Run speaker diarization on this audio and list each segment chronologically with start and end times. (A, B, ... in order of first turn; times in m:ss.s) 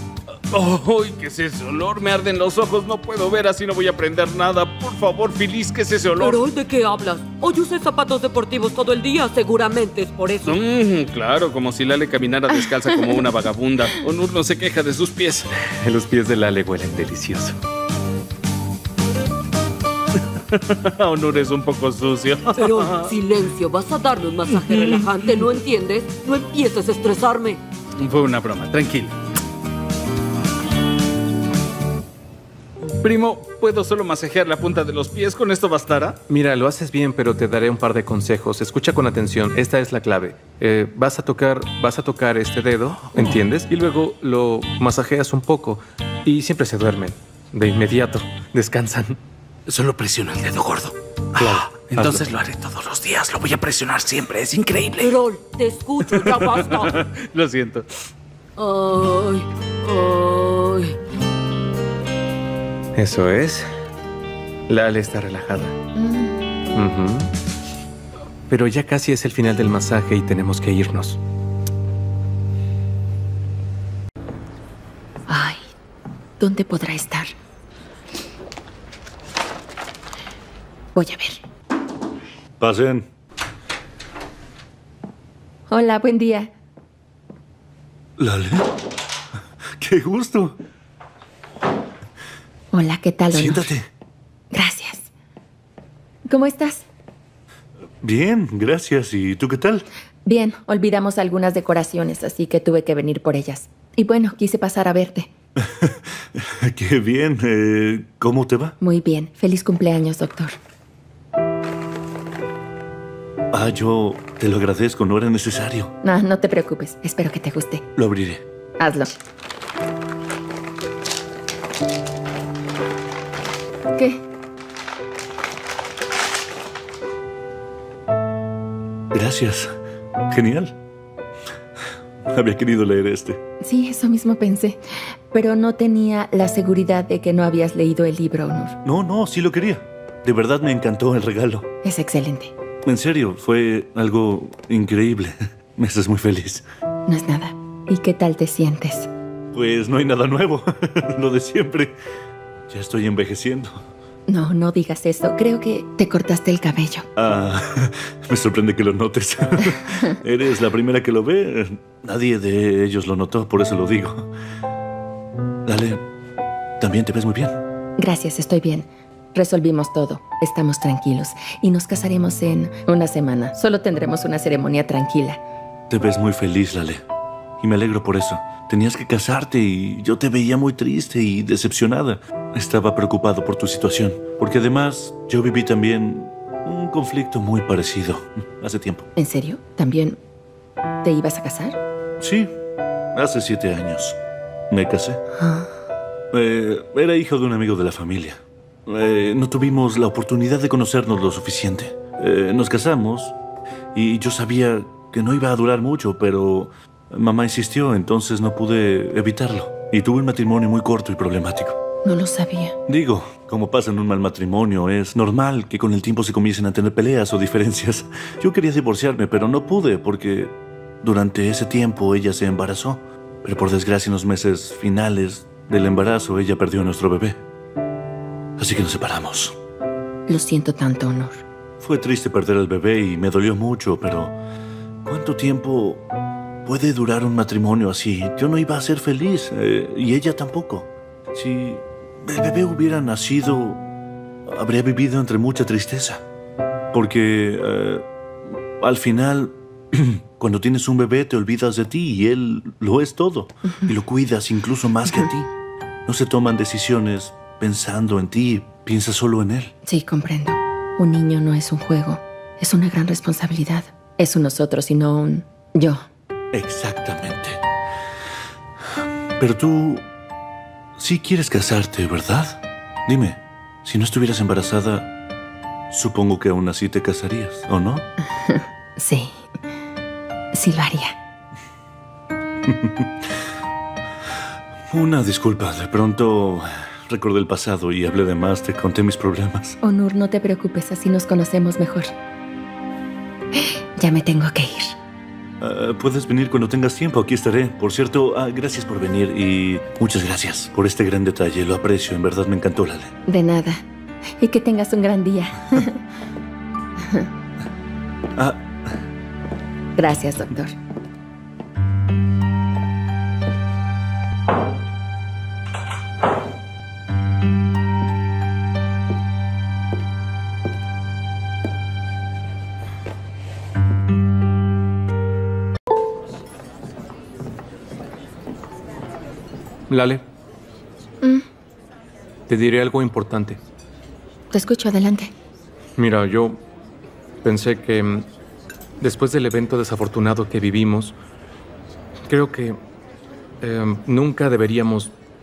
0:00.5-0:06.4 A
0:06.2-0:10.6 B
0:10.4-0:15.5 A
0:15.7-0:17.6 C
0:20.5-0:23.1 A
0:22.5-0:27.6 B
0:24.5-0:25.4 A
0:28.0-0:29.1 A
0:32.9-0:36.2 A
0:36.3-0:49.2 C
0:49.7-0:55.1 D
0:51.4-0:52.2 C
0:55.0-0:57.0 B
0:56.1-0:57.8 A
0:58.6-1:01.0 B
1:03.0-1:03.7 C
1:04.7-1:05.8 C
1:05.9-1:06.4 E
1:06.7-1:07.3 C
1:08.5-1:11.2 C
1:15.3-1:15.6 E
1:16.4-1:17.3 E
1:20.9-1:21.4 E
1:22.6-1:23.1 F
1:25.7-1:26.5 E
1:28.2-1:28.8 F
1:29.8-1:30.6 F
1:32.7-1:33.7 E
1:33.3-1:33.9 F
1:34.5-1:35.1 E
1:36.3-1:36.8 E
1:38.0-1:39.8 F
1:40.2-1:45.3 E
1:45.6-1:48.8 F
1:48.8-1:50.6 E
1:53.5-1:55.9 F
1:56.0-1:57.8 E
1:58.0-1:58.4 F
1:58.8-1:59.2 E
2:03.9-2:04.2 E
2:09.1-2:09.7 F
2:10.3-2:10.8 F
2:12.3-2:13.4 F
2:13.6-2:18.8 E
2:18.8-2:21.7 F
2:21.8-2:22.5 E
2:22.8-2:26.6 F
2:27.1-2:29.1 E
2:29.5-2:32.0 F
2:32.7-2:33.8 F
2:34.3-2:37.1 E
2:37.2-2:44.3 F
2:45.6-2:46.0 F
2:46.8-2:47.6 F
2:48.0-2:55.4 E
2:55.9-2:57.0 F
2:57.6-3:09.1 F
3:09.2-3:10.2 E
3:11.0-3:11.8 E
3:12.2-3:12.5 F
3:13.1-3:14.2 F
3:14.7-3:15.2 F
3:15.4-3:15.7 E
3:16.3-3:23.4 F
3:23.9-3:31.8 F
3:32.0-3:32.8 E
3:32.9-3:47.4 F
3:48.6-3:49.6 F
3:50.3-3:51.4 E
3:51.8-3:54.4 F
3:55.0-3:56.1 F
3:56.6-4:03.8 F
4:04.5-4:06.2 F
4:06.9-4:08.1 F
4:08.8-4:15.5 F
4:16.1-4:19.7 F
4:19.8-4:26.0 E
4:26.5-4:27.6 F
4:29.4-4:30.1 F
4:31.0-4:35.1 F
4:35.9-4:38.0 F
4:38.4-4:39.4 E
4:40.5-4:41.2 E
4:42.7-4:43.1 F
4:44.9-4:49.8 F
4:49.8-4:52.1 E
4:53.5-4:55.0 E
4:55.6-5:03.1 F
5:03.3-5:06.0 E
5:07.0-5:07.3 E
5:08.4-5:08.7 F
5:10.0-5:10.7 E
5:29.9-5:30.2 C
5:32.5-5:33.6 C
5:34.5-5:35.3 E
5:36.0-5:36.6 C
5:37.4-5:38.3 C
5:39.0-5:41.2 C
5:42.3-5:42.8 C
5:43.6-5:45.1 C